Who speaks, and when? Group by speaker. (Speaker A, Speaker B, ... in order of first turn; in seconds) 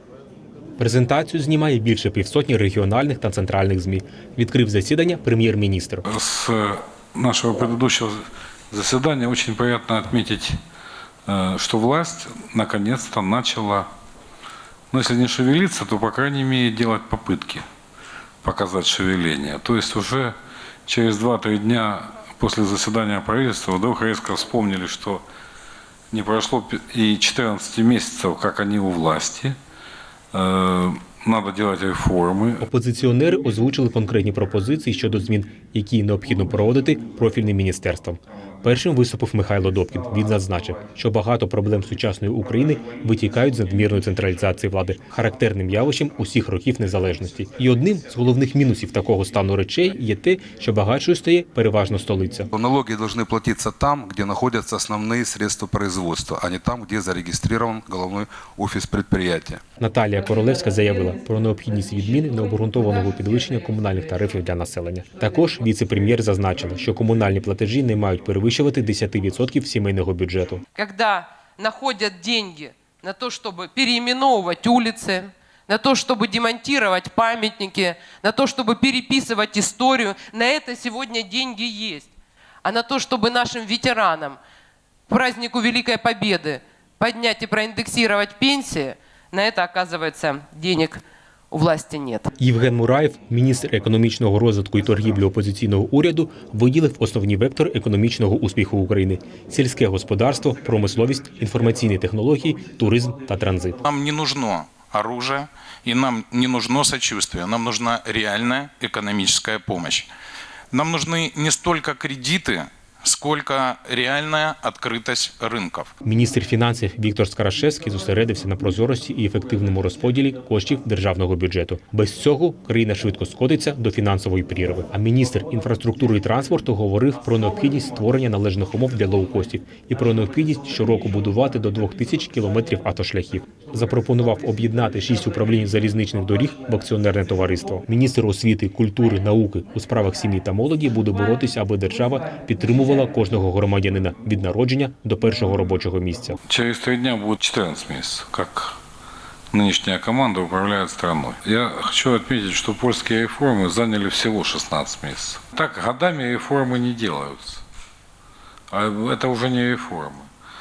Speaker A: 0.8-6.0, 32.6-52.5, 59.8-70.6, 92.4-103.8, 116.0-146.4
Speaker B: 6.1-8.2, 8.7-10.6, 11.3-13.9, 14.9-17.6, 18.4-20.3, 20.9-25.2, 26.1-29.6, 30.3-32.6, 146.5-148.8, 149.5-157.6, 158.7-160.3
Speaker C: 52.5-59.6
Speaker D: 70.8-82.1, 82.6-84.4, 85.1-92.3
Speaker E: 103.8-110.1, 110.7-115.9